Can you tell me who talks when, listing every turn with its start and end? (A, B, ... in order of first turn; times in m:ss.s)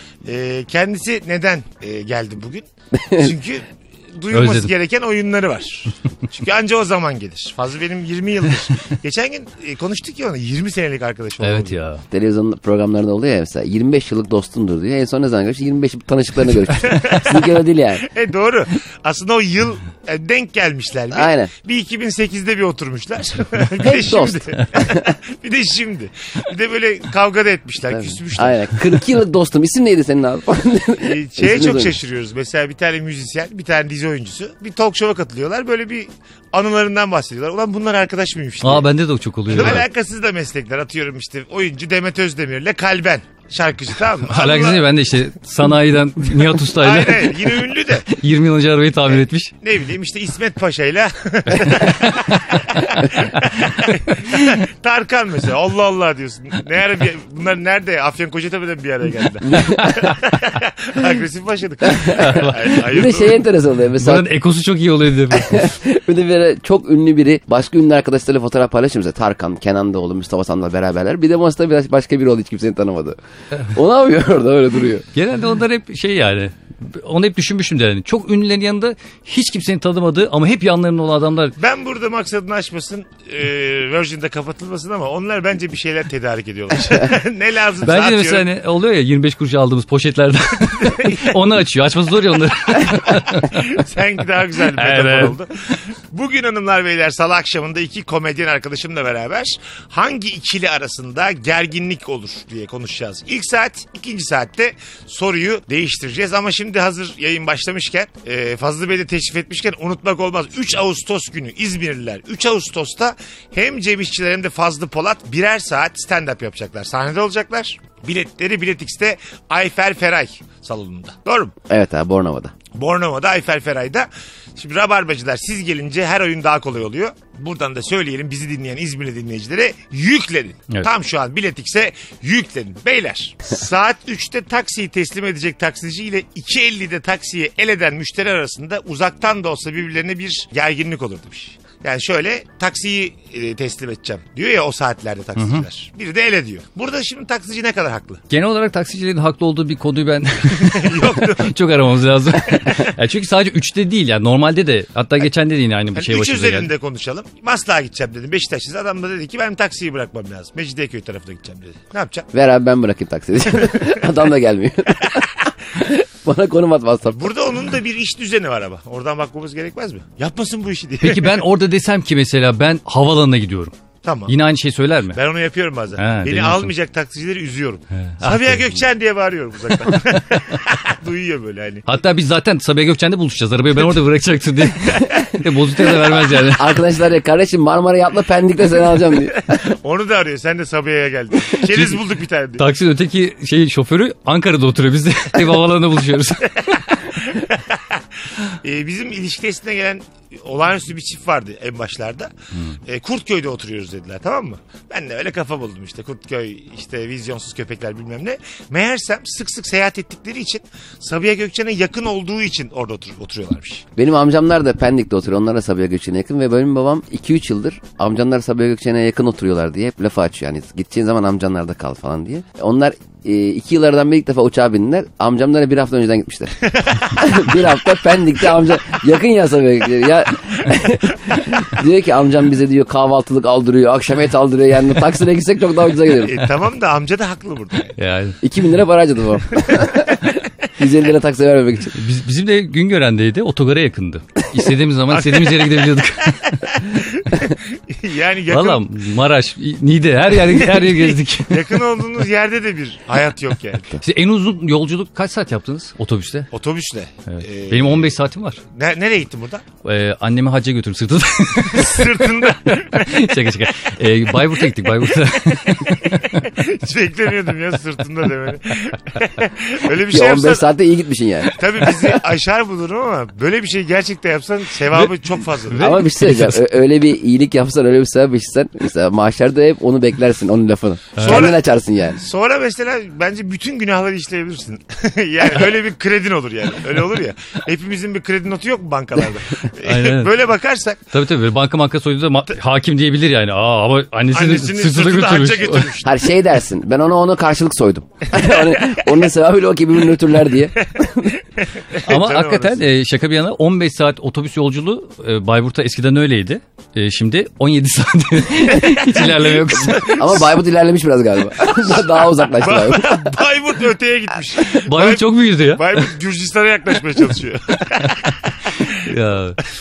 0:00.2-0:11.8 A
0:02.9-0:03.3 B
0:04.3-0:04.7 C
0:11.4-0:12.0 C
0:12.1-0:18.1 B
0:16.7-0:28.9 A
0:21.1-0:21.5 B
0:23.8-0:25.1 B
0:27.9-0:31.9 B
0:31.0-0:38.9 A
0:38.6-0:39.8 C
0:39.5-0:44.9 A
0:44.2-0:47.5 C
0:46.3-0:48.1 A
0:48.0-0:49.5 C
0:49.1-1:03.4 A
0:51.5-0:51.9 C
0:59.4-1:00.1 B
0:59.5-1:00.3 C
1:01.8-1:04.2 B
1:02.0-1:02.8 C
1:04.0-1:05.7 C
1:05.3-1:15.0 B
1:15.1-1:21.5 C
1:21.6-1:28.4 A
1:27.8-1:33.7 C
1:30.8-1:31.3 A
1:33.4-2:01.5 A
1:34.7-1:35.4 C
2:01.7-2:02.5 B
2:02.7-2:28.2 A
2:25.4-2:25.6 C
2:28.3-2:36.7 C
2:30.5-2:31.5 A
2:35.9-2:42.3 A
2:42.3-2:47.3 B
2:47.1-2:51.4 A
2:51.0-2:53.7 C
2:54.0-2:54.3 A
2:54.2-2:55.2 C
2:55.1-3:01.8 A
2:56.0-2:56.7 C
2:57.9-2:58.8 C
3:01.8-3:06.7 C
3:06.5-3:09.6 B
3:09.6-3:12.6 A
3:11.7-3:12.0 C
3:12.6-3:16.8 C
3:17.1-3:22.3 A
3:22.8-3:33.8 A
3:34.0-3:56.4 B
3:56.2-3:58.0 A
3:58.0-3:58.4 C
3:58.4-4:02.0 B
4:01.9-4:06.5 C
4:05.1-4:08.9 A
4:08.5-4:11.7 C
4:10.6-4:14.0 A
4:14.0-4:16.5 C
4:16.5-4:18.2 A
4:17.3-4:18.6 C
4:18.7-4:19.6 A
4:19.8-4:26.3 C
4:21.6-4:23.3 A
4:25.5-4:30.6 A
4:30.1-4:31.6 B
4:31.5-4:35.9 A
4:35.6-4:36.6 C
4:35.7-4:42.2 B
4:41.2-4:41.5 C
4:41.2-4:41.6 A
4:42.2-4:51.0 A
4:49.8-4:50.3 C
4:51.1-4:55.9 C
4:54.3-4:56.1 A
4:56.0-5:01.3 B
5:01.6-5:02.8 A
5:02.0-5:10.5 C
5:08.8-5:10.2 A
5:10.0-5:13.4 B
5:12.5-5:19.0 A
5:14.8-5:16.1 C
5:17.9-5:18.3 C
5:18.9-5:19.6 C